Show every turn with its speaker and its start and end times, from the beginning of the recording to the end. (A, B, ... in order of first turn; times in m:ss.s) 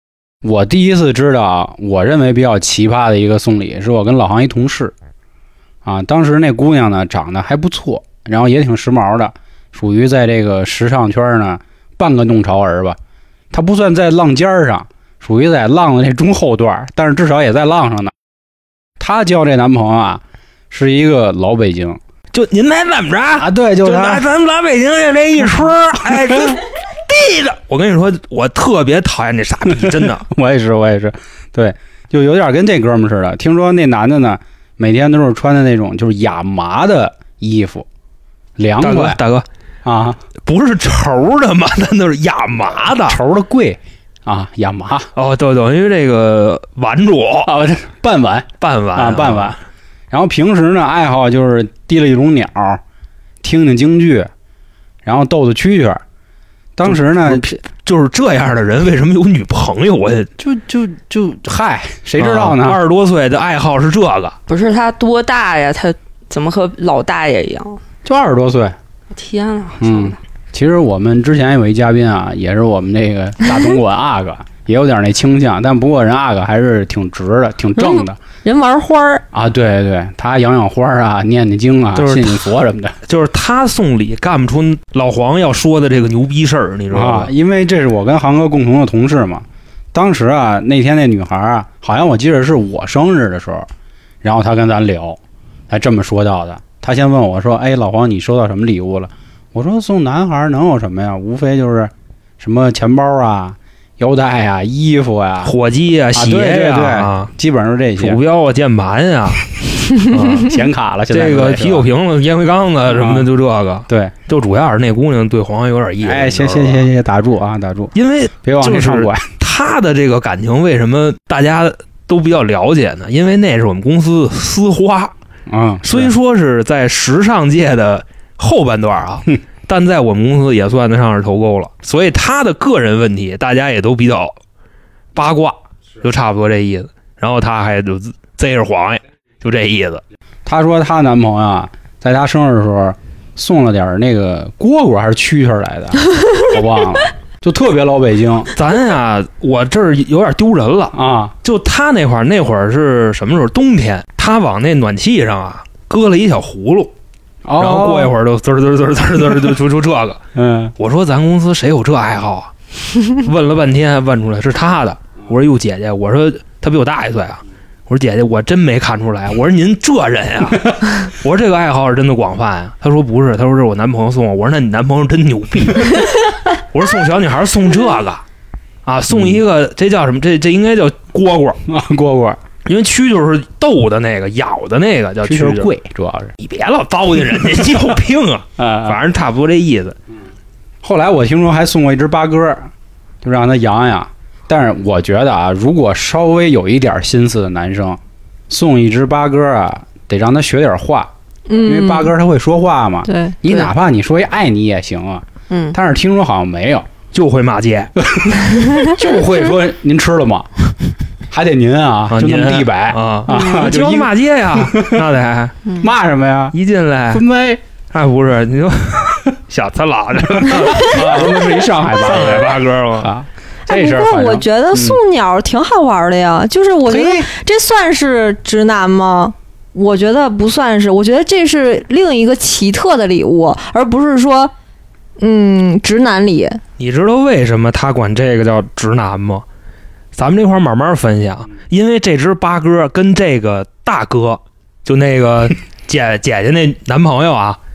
0:00.4-0:04.9 A
0:05.8-0:13.0 A
0:13.5-0:18.1 A
0:19.0-0:22.0 A
0:22.3-0:30.3 B
0:23.4-0:24.3 A
0:29.7-0:37.9 A
0:38.6-0:39.2 A
0:38.8-0:39.4 B
0:39.8-0:40.2 A
0:40.5-0:43.2 B
0:43.0-0:45.1 A
0:45.2-0:47.5 B
0:47.4-0:49.6 A
0:48.6-0:49.6 B
0:50.1-0:52.8 A
0:53.4-0:54.3 A
0:55.0-0:56.0 A
0:56.8-0:57.4 A
0:56.9-1:00.3 B
1:00.4-1:02.8 A
1:02.2-1:04.4 B
1:04.5-1:07.8 C
1:08.0-1:08.8 A
1:09.1-1:10.2 C
1:09.8-1:18.2 A
1:17.8-1:19.2 D
1:19.3-1:23.0 A
1:22.0-1:22.4 B
1:23.1-1:27.3 B
1:26.9-1:33.7 A
1:34.2-1:35.2 A
1:35.7-1:45.5 A
1:45.4-1:47.3 B
1:46.1-1:48.2 A
1:48.0-1:56.9 B
1:50.1-1:51.9 A
1:52.9-1:53.3 A
1:53.9-1:54.1 A
1:56.0-1:57.9 A
1:58.0-2:05.1 B
1:58.4-1:59.3 A
2:05.5-2:06.1 A
2:05.8-2:14.3 B
2:15.2-2:20.0 B
2:20.5-2:28.5 A
2:28.6-2:36.9 B
2:30.9-2:31.3 A
2:37.4-2:38.1 A
2:37.6-2:40.2 B
2:40.4-2:40.7 A
2:40.8-2:42.5 B
2:43.0-2:58.2 B
2:58.9-3:01.6 B
2:59.1-2:59.4 A
3:01.7-3:02.4 A
3:02.7-3:05.7 B
3:05.2-3:06.3 A
3:06.4-3:10.0 B
3:08.6-3:09.0 A
3:10.8-3:12.7 A
3:13.2-3:26.9 A
3:21.5-3:22.1 D
3:23.0-3:23.4 D
3:23.5-3:23.7 C
3:25.5-3:25.8 C
3:27.1-3:27.9 B
3:28.0-3:30.5 A
3:31.3-3:35.0 A
3:32.1-3:35.6 B
3:33.3-3:33.7 C
3:35.8-3:36.6 A
3:36.5-3:37.2 B
3:37.1-3:37.6 A
3:37.9-3:43.1 B
3:40.3-3:45.0 A
3:43.7-3:54.5 D
3:46.9-3:47.3 A
3:55.2-3:56.6 D
3:56.8-3:59.4 B
4:00.1-4:07.6 B